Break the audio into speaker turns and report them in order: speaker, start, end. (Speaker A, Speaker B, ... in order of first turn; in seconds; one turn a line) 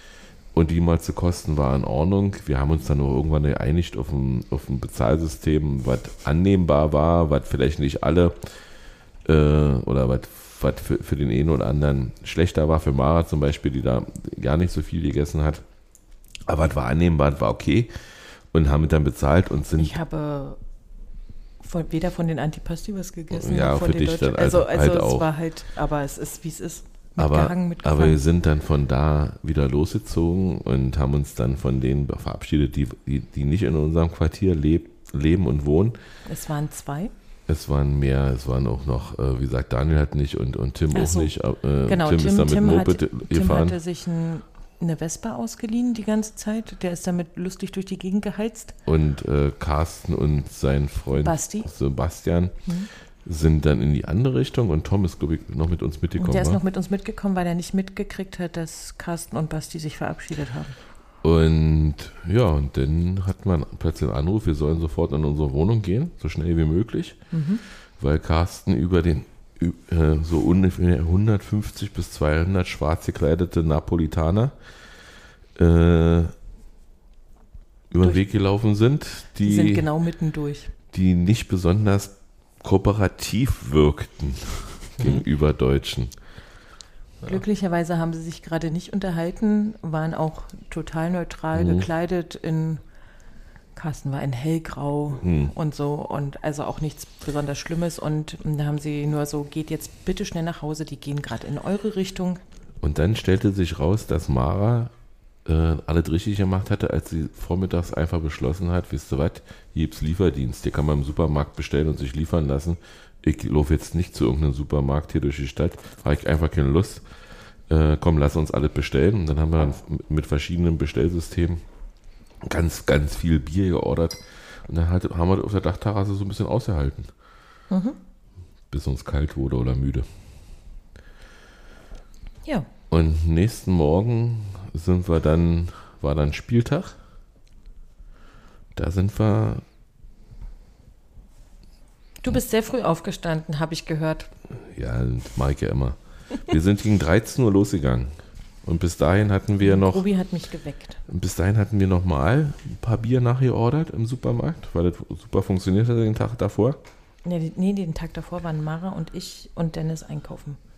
Speaker A: 0.5-8.6
Speaker A: 9.2-15.6
Speaker A: 16.5-20.0
Speaker B: 19.8-20.6
Speaker B: 21.6-28.2
Speaker A: 23.3-25.3
Speaker A: 27.2-36.0
Speaker B: 36.3-37.1
Speaker A: 37.5-43.8
Speaker B: 40.9-41.3
Speaker B: 41.9-48.8
Speaker A: 48.9-52.7
Speaker B: 51.2-51.7
Speaker A: 53.2-56.6
Speaker B: 56.2-60.8
Speaker A: 61.2-74.6
Speaker B: 67.3-67.6
Speaker A: 75.5-76.3
Speaker A: 77.9-79.9
Speaker B: 77.9-78.2
Speaker B: 79.4-80.7
Speaker A: 80.9-86.1
Speaker B: 87.2-92.8
Speaker A: 91.5-91.9
Speaker B: 93.8-102.4
Speaker A: 95.2-95.5
Speaker A: 102.8-104.9
Speaker A: 105.5-117.0
Speaker A: 117.7-121.6
Speaker A: 122.4-127.1
Speaker B: 127.7-128.0
Speaker A: 128.7-130.1
Speaker A: 132.9-137.0
Speaker A: 138.8-139.6
Speaker B: 142.2-144.3
Speaker A: 144.6-150.1
Speaker B: 149.6-151.0
Speaker A: 151.1-156.8
Speaker B: 157.2-160.6